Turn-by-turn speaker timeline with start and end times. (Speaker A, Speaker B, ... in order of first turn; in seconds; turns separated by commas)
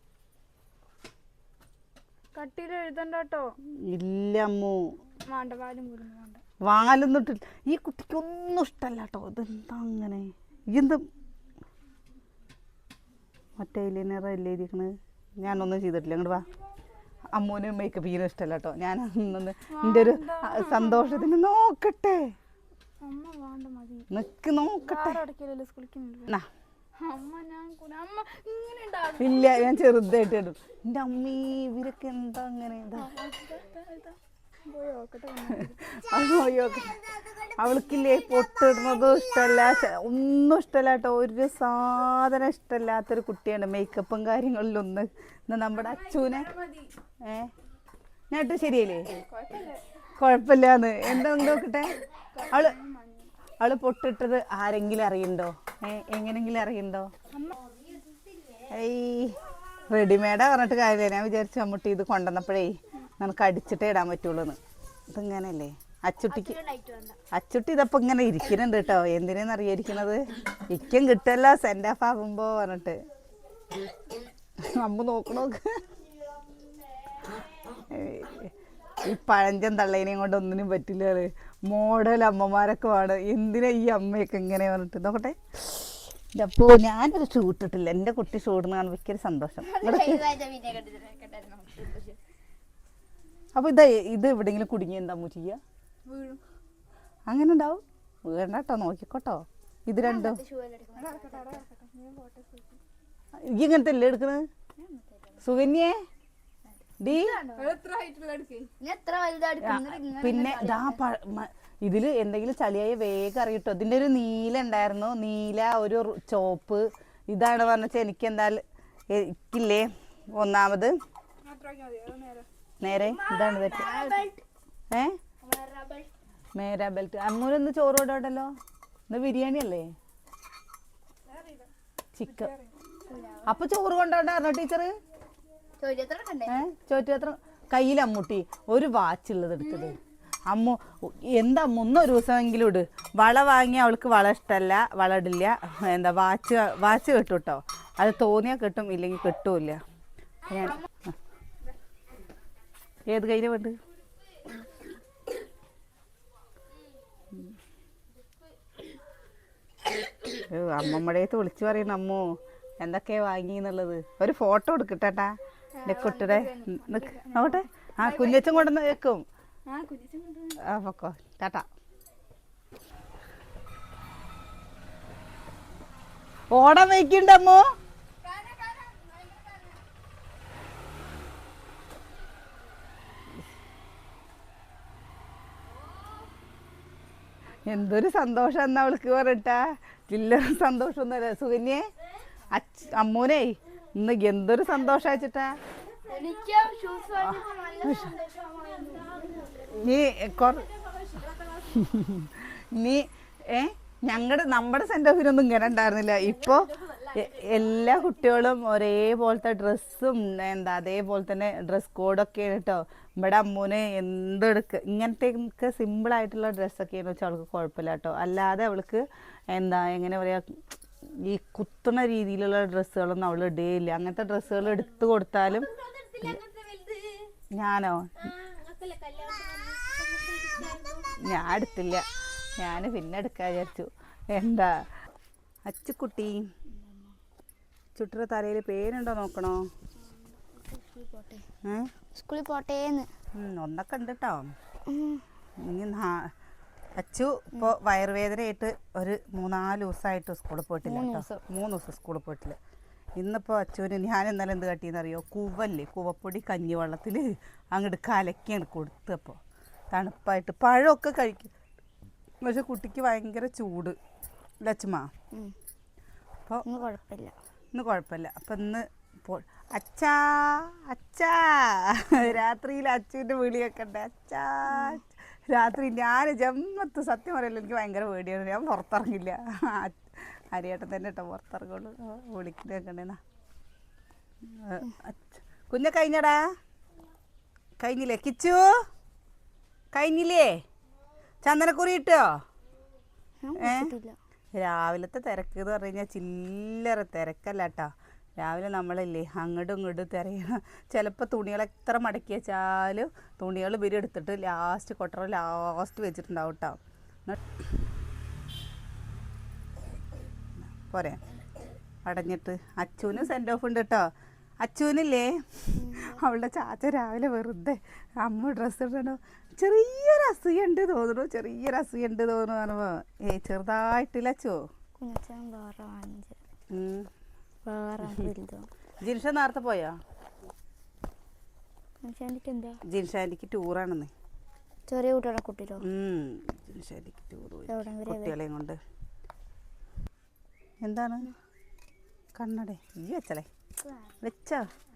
Speaker A: 2.3-3.5, Speaker B: 3.9-4.8, Speaker A: 5.3-6.4, Speaker B: 6.6-11.0, Speaker B: 13.6-16.5, Speaker B: 17.3-22.2, Speaker A: 19.7-21.3, Speaker A: 23.0-24.1, Speaker B: 24.1-25.2, Speaker A: 24.8-26.3, Speaker A: 27.0-29.7, Speaker B: 29.2-33.1, Speaker A: 33.0-36.0, Speaker B: 35.9-46.5, Speaker C: 36.1-39.6, Speaker A: 45.8-46.9, Speaker B: 47.2-47.5, Speaker B: 48.3-49.1, Speaker A: 49.2-49.9, Speaker B: 50.1-52.0, Speaker A: 52.3-53.3, Speaker B: 52.5-52.8, Speaker B: 53.6-57.1, Speaker B: 58.7-59.4, Speaker B: 59.9-64.6, Speaker B: 65.1-66.6, Speaker C: 66.3-67.2, Speaker B: 67.3-73.0, Speaker B: 74.6-75.8, Speaker B: 77.8-90.3, Speaker C: 89.6-92.2, Speaker B: 93.5-95.6, Speaker A: 96.1-96.4, Speaker B: 97.3-100.4, Speaker C: 100.0-101.6, Speaker A: 101.0-102.8, Speaker B: 103.5-104.4, Speaker C: 104.8-105.5, Speaker B: 105.4-106.0, Speaker B: 107.0-107.4, Speaker C: 107.0-107.8, Speaker A: 107.6-108.7, Speaker C: 108.8-111.0, Speaker B: 109.6-120.9, Speaker A: 121.5-122.5, Speaker B: 122.8-123.9, Speaker C: 123.0-124.4, Speaker A: 123.9-124.1, Speaker B: 124.9-125.2, Speaker C: 125.4-126.1, Speaker B: 126.6-128.5, Speaker B: 129.1-129.9, Speaker A: 131.3-131.7, Speaker B: 132.2-132.5, Speaker A: 132.2-132.7, Speaker C: 133.1-133.6, Speaker B: 133.4-134.9, Speaker C: 135.8-136.6, Speaker B: 136.5-140.0, Speaker B: 140.5-149.8, Speaker B: 150.5-150.9, Speaker B: 153.1-153.8, Speaker B: 160.3-162.3, Speaker B: 162.8-169.2, Speaker A: 165.8-168.7, Speaker A: 169.7-170.6, Speaker B: 170.6-171.7, Speaker B: 176.5-177.6, Speaker B: 187.7-191.9, Speaker B: 192.5-195.6, Speaker C: 196.1-199.6, Speaker B: 197.3-198.1, Speaker B: 199.7-200.7, Speaker A: 201.1-201.4, Speaker B: 201.6-220.6, Speaker C: 206.5-207.2, Speaker B: 221.2-225.7, Speaker C: 225.6-227.2, Speaker B: 227.6-228.1, Speaker C: 228.2-231.1, Speaker B: 231.2-232.0, Speaker B: 232.6-234.7, Speaker B: 235.7-236.4, Speaker C: 236.8-237.1, Speaker B: 238.0-239.7, Speaker C: 240.1-241.4, Speaker B: 241.7-241.9, Speaker C: 242.1-243.1, Speaker B: 243.4-244.5, Speaker C: 244.9-245.2, Speaker B: 245.6-246.3, Speaker B: 247.0-252.6, Speaker C: 250.8-251.4, Speaker B: 253.2-259.4, Speaker B: 259.9-261.5, Speaker B: 262.4-264.0, Speaker B: 264.6-265.1, Speaker C: 266.6-267.4, Speaker B: 267.8-283.2, Speaker C: 274.7-275.0, Speaker B: 284.5-286.4, Speaker B: 287.8-288.7, Speaker B: 289.9-290.6, Speaker B: 291.4-292.4, Speaker C: 293.4-294.2, Speaker B: 293.6-293.9, Speaker B: 294.6-307.4, Speaker B: 310.6-311.2, Speaker B: 312.1-314.1, Speaker B: 314.6-324.6, Speaker C: 315.8-316.2, Speaker C: 325.0-326.4, Speaker B: 326.7-327.1, Speaker C: 327.6-328.7, Speaker B: 329.0-330.0, Speaker C: 332.0-332.8, Speaker B: 332.9-334.1, Speaker C: 334.9-335.9, Speaker B: 335.8-338.8, Speaker C: 337.7-338.4, Speaker B: 340.8-341.3, Speaker B: 342.4-343.5, Speaker C: 343.8-344.2, Speaker B: 344.2-344.7